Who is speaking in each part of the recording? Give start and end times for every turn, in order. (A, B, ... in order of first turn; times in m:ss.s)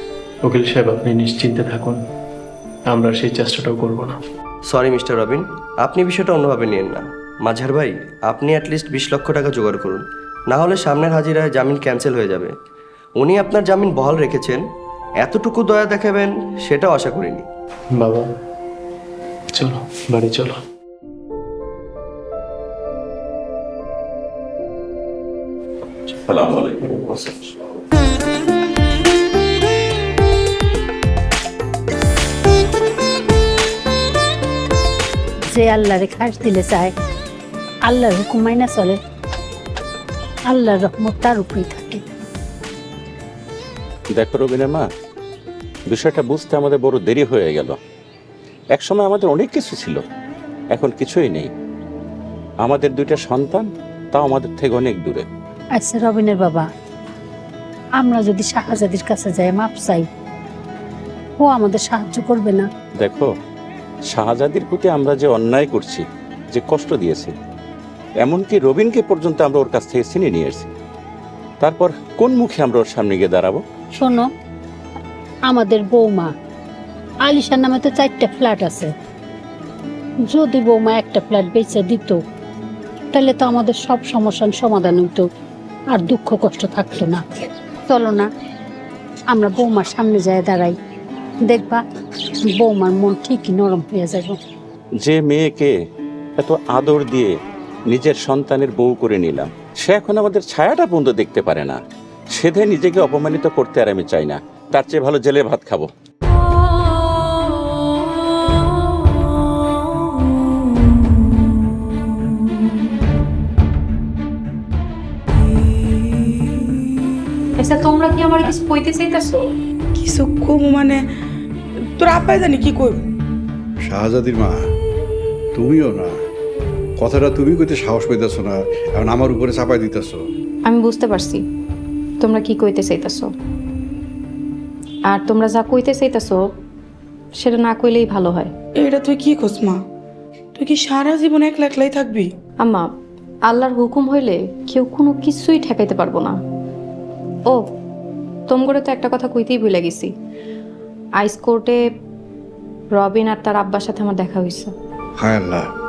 0:00.4-0:02.0 A
0:02.9-0:04.2 A
0:04.7-0:12.5 B
0:13.2-0:14.6 B
0:15.2-0:17.4 B
0:18.0-0:18.3 A
0:19.5-0:20.6 A
0:26.1-0:27.6 C
0:35.5-0:36.9 D
0:37.9-0:39.0 D
0:40.5-0:42.0 D
0:44.2-0:44.9 C
0:45.9-0:47.8 C
0:48.8-0:50.0 C
0:50.7-0:51.5 C
0:52.6-0:55.2 C
0:55.8-0:56.6 D
0:58.0-1:00.0 D
1:01.4-1:02.7 D
1:03.0-1:03.3 C
1:04.1-1:07.3 C
1:08.2-1:10.7 C
1:11.6-1:13.6 C
1:14.0-1:14.3 D
1:15.5-1:16.3 D
1:17.2-1:18.9 D
1:20.3-1:22.2 D
1:23.1-1:25.2 D
1:25.9-1:28.3 D
1:29.3-1:30.7 D
1:31.4-1:31.8 D
1:32.5-1:34.4 D
1:35.0-1:35.7 C
1:36.4-1:37.3 C
1:37.9-1:41.8 C
1:42.4-1:45.9 C
1:57.6-1:59.4 E
2:00.0-2:01.0 F
2:02.0-2:03.0 F
2:03.8-2:04.6 G
2:05.5-2:06.1 G
2:07.0-2:10.2 G
2:10.7-2:11.4 E
2:12.2-2:13.3 E
2:15.1-2:16.4 E
2:17.4-2:18.5 E
2:18.8-2:19.8 F
2:20.6-2:22.3 F
2:23.5-2:26.3 E
2:28.5-2:30.1 E
2:31.2-2:31.8 E
2:33.0-2:34.7 E
2:35.2-2:35.6 G